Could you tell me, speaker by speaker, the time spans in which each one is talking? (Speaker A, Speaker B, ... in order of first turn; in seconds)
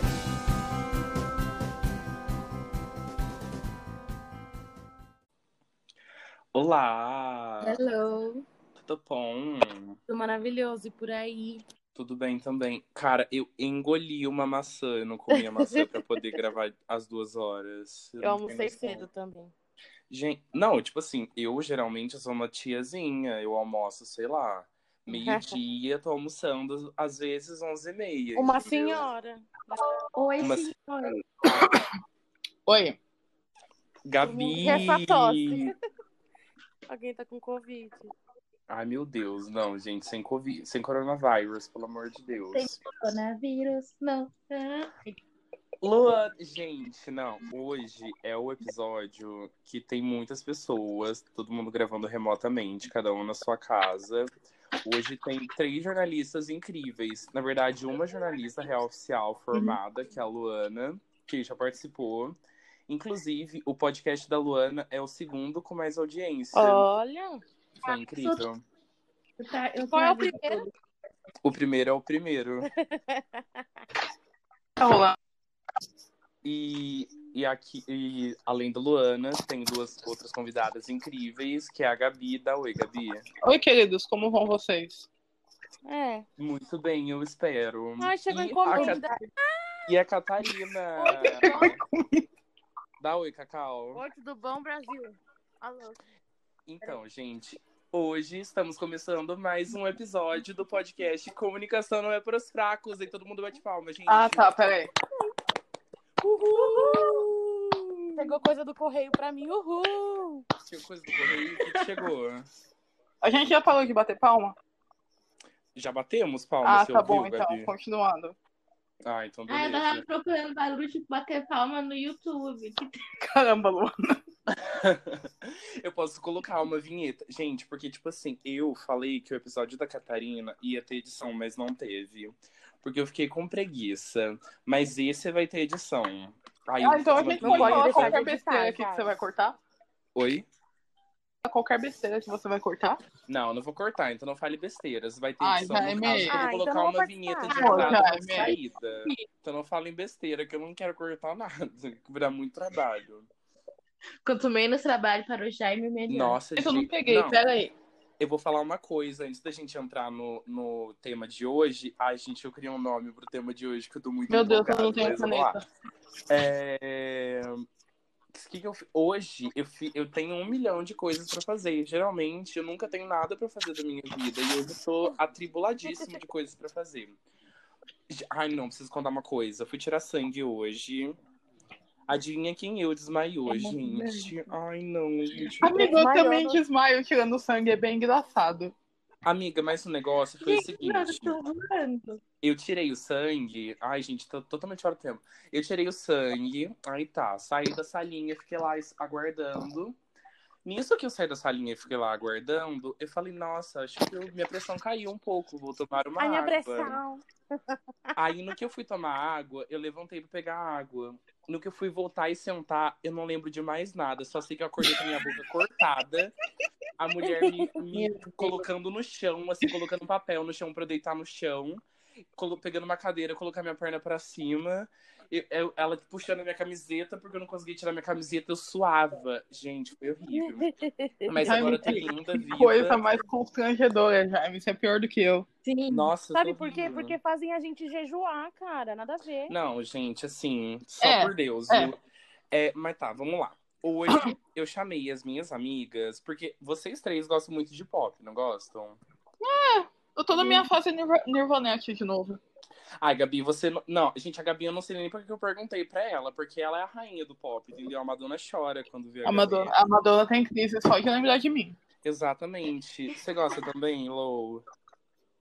Speaker A: 6.5-7.8, 8.8-10.0, 11.9-19.0, 20.1-29.1, 30.4-30.7, 34.0-35.7, 38.7-42.8, 45.8-54.3, 54.8-62.4, 62.9-66.9, 67.8-68.6, 71.4-72.7, 76.4-83.2, 86.4-89.0, 89.9-91.8, 93.0-94.0, 96.7-104.7, 110.6-112.5, 115.7-117.7, 119.0-120.0, 124.5-138.2, 140.1-140.4, 143.3-153.3, 156.1-157.4, 158.2-165.6, 166.3-167.7, 168.3-177.2, 178.1-181.2, 182.1-186.0, 189.2-191.4, 192.4-199.9, 200.6-207.0, 208.1-216.3, 217.0-221.8, 222.3-230.7, 231.2-233.2, 235.9-237.2, 239.5-242.0, 242.5-249.0, 253.0-259.7, 262.0-264.6
Speaker B: 7.6-8.4, 30.1-31.2, 42.5-45.1, 67.8-68.4, 69.4-70.7, 119.5-123.0, 154.2-156.4, 190.5-192.1, 235.6-236.1
Speaker C: 10.1-11.6, 15.4-15.8, 18.2-19.5, 25.1-25.6, 28.4-29.8, 34.2-35.7, 36.9-38.1, 66.5-67.4, 69.9-70.7, 72.7-73.8, 85.8-86.2, 88.0-89.7, 91.2-91.7, 93.9-96.0, 106.5-107.2, 108.2-110.5, 137.4-139.2, 146.2-148.5, 183.6-184.3, 185.6-186.6, 191.5-191.9, 206.2-207.2, 230.3-231.8, 236.3-239.5
Speaker D: 31.4-31.8, 32.6-33.0, 74.8-75.2, 83.4-85.1, 88.7-89.1, 91.0-92.2, 104.1-104.9, 113.2-114.5, 116.6-118.3, 123.2-124.2, 136.8-139.6, 141.4-143.0, 145.4-146.4, 147.5-148.5, 156.6-157.7, 164.3-165.6, 185.6-188.7, 218.0-218.5, 231.3-235.4, 241.0-241.9, 249.4-252.4, 259.2-261.8